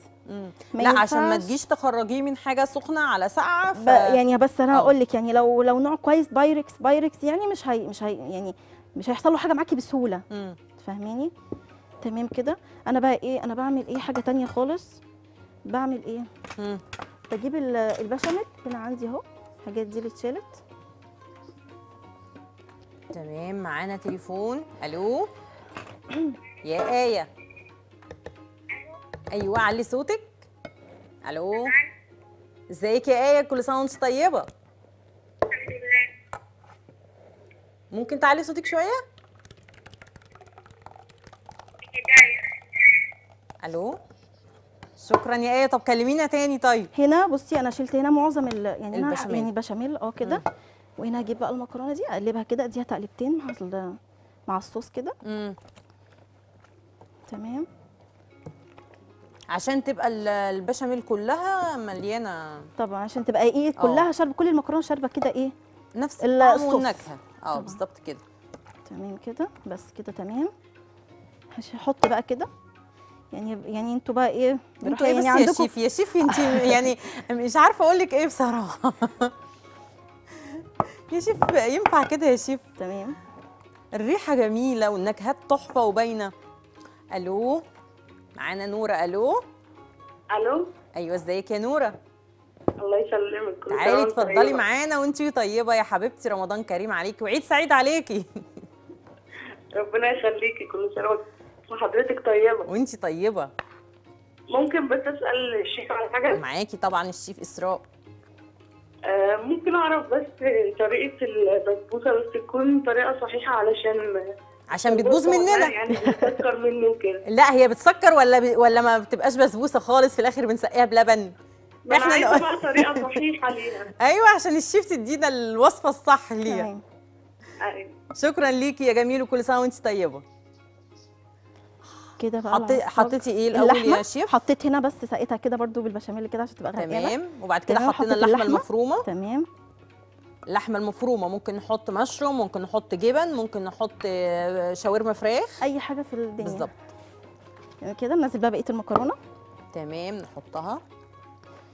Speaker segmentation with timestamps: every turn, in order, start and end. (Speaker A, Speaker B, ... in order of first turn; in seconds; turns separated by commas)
Speaker A: 0.3-4.2, Speaker B: 0.7-1.5, Speaker B: 3.8-10.2, Speaker A: 10.3-10.6, Speaker B: 10.8-11.3, Speaker B: 12.0-15.0, Speaker B: 15.7-16.3, Speaker B: 17.3-20.6, Speaker A: 23.1-25.3, Speaker A: 26.6-27.3, Speaker A: 29.3-30.4, Speaker A: 31.2-31.8, Speaker A: 32.7-34.5, Speaker C: 35.5-36.1, Speaker A: 37.9-38.9, Speaker C: 41.9-42.5, Speaker A: 43.6-43.9, Speaker A: 45.0-46.9, Speaker B: 46.9-50.4, Speaker A: 48.9-49.5, Speaker B: 51.0-54.0, Speaker B: 54.5-55.2, Speaker A: 55.2-55.6, Speaker B: 57.3-57.7, Speaker A: 59.5-62.7, Speaker B: 62.8-65.5, Speaker A: 63.8-64.1, Speaker A: 65.9-68.2, Speaker B: 66.2-67.8, Speaker B: 68.9-70.5, Speaker B: 71.5-72.5, Speaker B: 73.3-75.7, Speaker A: 74.8-79.3, Speaker B: 76.2-76.8, Speaker A: 80.4-82.6, Speaker B: 82.8-83.2, Speaker A: 83.9-86.3, Speaker A: 87.1-87.6, Speaker A: 88.3-89.4, Speaker C: 90.3-90.7, Speaker A: 91.0-92.0, Speaker C: 92.8-94.6, Speaker A: 93.7-98.4, Speaker C: 99.8-102.7, Speaker A: 102.7-103.5, Speaker C: 104.5-106.4, Speaker A: 106.3-107.8, Speaker C: 109.1-114.1, Speaker A: 114.7-115.8, Speaker C: 114.8-117.2, Speaker A: 117.3-121.3, Speaker C: 121.9-123.9, Speaker A: 121.9-123.2, Speaker A: 124.0-126.7, Speaker B: 126.5-126.8, Speaker C: 127.6-127.9, Speaker A: 128.1-130.2, Speaker B: 132.2-137.2, Speaker A: 132.5-134.3, Speaker A: 136.7-139.1, Speaker B: 137.7-139.5, Speaker A: 140.5-145.6, Speaker B: 145.6-146.7, Speaker A: 146.4-146.7, Speaker B: 147.8-149.2, Speaker A: 149.7-150.8